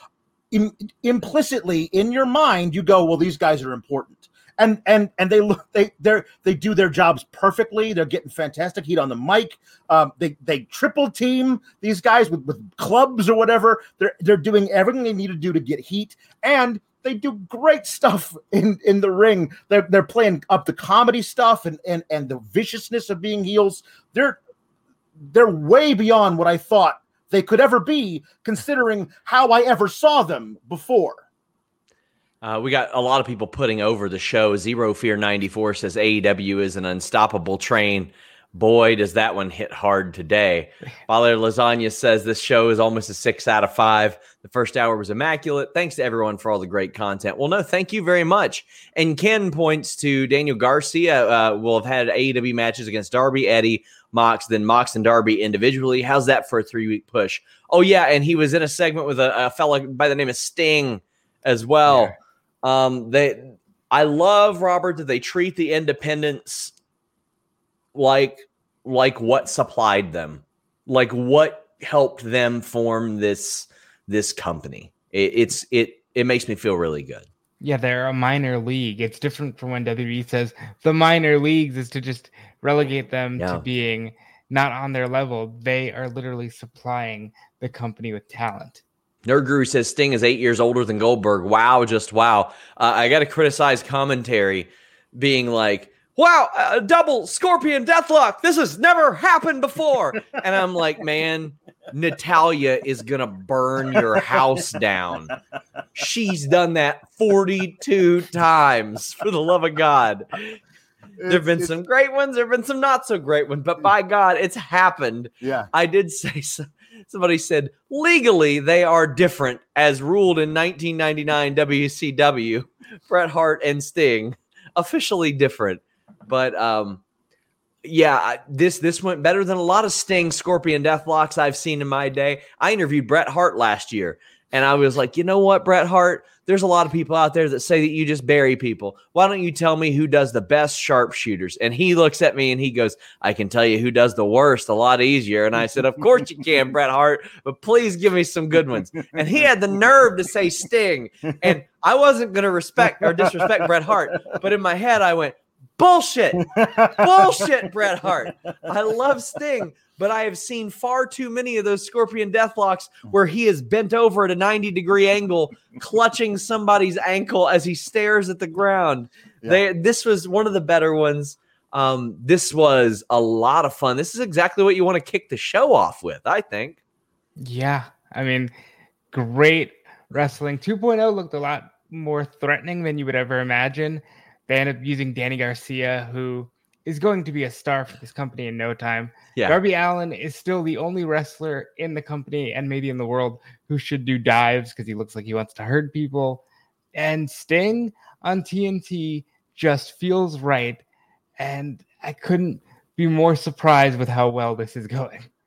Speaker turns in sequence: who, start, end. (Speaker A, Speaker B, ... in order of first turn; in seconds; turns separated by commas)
Speaker A: 0.5-24.4, Speaker A: 25.2-31.2, Speaker B: 32.4-66.7, Speaker B: 67.9-77.3, Speaker C: 77.6-88.8, Speaker B: 83.4-83.6, Speaker B: 89.2-105.3, Speaker B: 106.0-110.6, Speaker A: 111.2-111.7, Speaker B: 111.3-127.0, Speaker A: 115.4-115.7, Speaker B: 127.8-176.8, Speaker A: 153.3-153.6, Speaker A: 156.5-157.5, Speaker C: 177.4-178.5, Speaker C: 179.1-196.4, Speaker C: 196.9-200.8, Speaker C: 201.4-205.3